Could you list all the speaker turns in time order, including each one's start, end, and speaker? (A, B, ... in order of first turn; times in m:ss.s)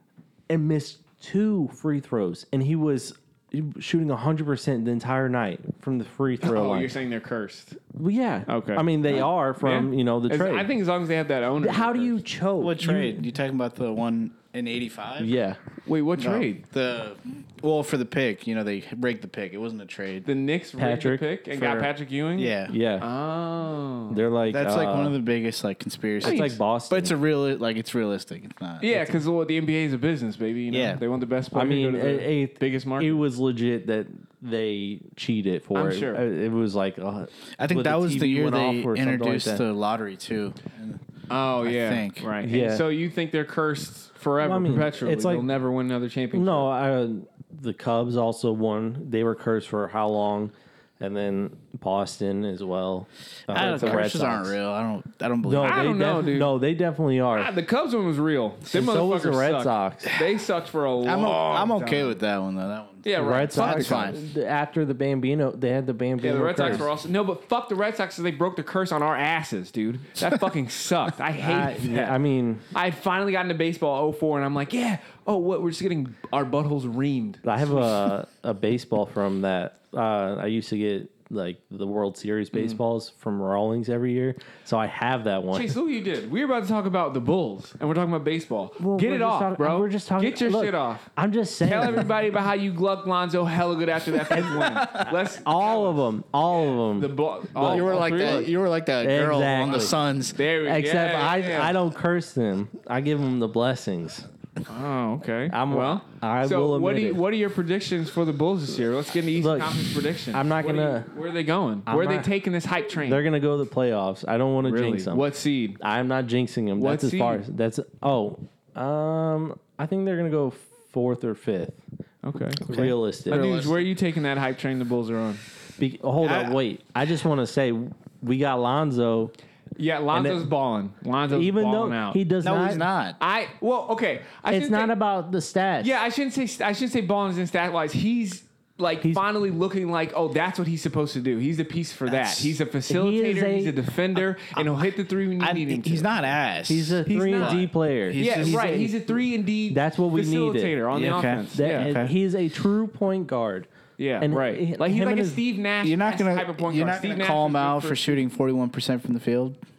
0:00.5-0:06.9 A
0:06.4-0:07.8 B
0:07.9-0:10.7 A
0:08.5-0:12.2 B
0:11.6-0:13.3 A
0:12.6-0:15.3 C
0:15.2-0:15.6 A
0:15.8-0:16.6 B
0:16.2-0:20.3 C
0:20.2-0:24.2 B
0:20.8-0:21.2 A
0:21.6-0:22.8 C
0:22.7-0:23.1 A
0:24.1-0:25.2 A
0:24.5-0:29.2 C
0:26.2-0:27.1 A
0:26.2-0:26.5 B
0:28.8-0:33.2 B
0:30.7-0:31.0 C
0:31.5-0:39.6 A
0:35.7-0:36.2 B
0:37.6-0:41.0 C
0:41.3-0:46.7 B
0:41.6-0:42.3 C
0:42.4-0:42.9 A
0:44.4-0:45.5 A
0:46.3-0:54.6 A
0:53.5-0:55.8 C
0:55.4-0:57.5 A
0:55.6-0:56.5 B
0:57.3-1:02.1 B
0:58.7-1:00.1 A
1:01.0-1:04.2 C
1:03.0-1:04.1 B
1:03.2-1:06.9 A
1:06.2-1:12.2 B
1:11.4-1:12.6 A
1:12.7-1:18.1 B
1:17.4-1:25.7 A
1:25.5-1:31.1 B
1:28.8-1:32.1 A
1:31.6-1:36.0 B
1:34.3-1:40.0 A
1:34.4-1:35.1 C
1:36.7-1:38.5 B
1:37.6-1:40.4 C
1:40.3-1:41.8 B
1:40.6-1:44.2 A
1:44.7-1:53.2 B
1:45.5-1:47.2 A
1:49.4-1:51.1 A
1:51.9-1:52.3 A
1:53.0-1:55.3 A
1:54.6-1:55.8 B
1:55.8-2:01.8 A
1:56.8-1:57.4 B
2:02.2-2:02.6 B
2:02.6-2:03.8 C
2:02.7-2:03.4 A
2:03.3-2:05.4 B
2:05.8-2:09.3 A
2:06.2-2:06.6 C
2:09.8-2:12.2 B
2:10.1-2:10.4 A
2:11.3-2:12.8 A
2:12.4-2:13.2 C
2:13.2-2:14.9 B
2:14.5-2:15.9 A
2:15.8-2:26.1 B
2:22.0-2:22.6 C
2:22.9-2:23.7 A
2:24.5-2:24.8 C
2:25.4-2:29.0 C
2:26.7-2:28.9 A
2:27.0-2:27.6 B
2:28.2-2:31.9 B
2:29.7-2:30.8 A
2:30.9-2:32.1 C
2:31.5-2:33.7 A
2:34.0-2:38.2 B
2:34.2-2:35.4 A
2:35.8-2:39.6 C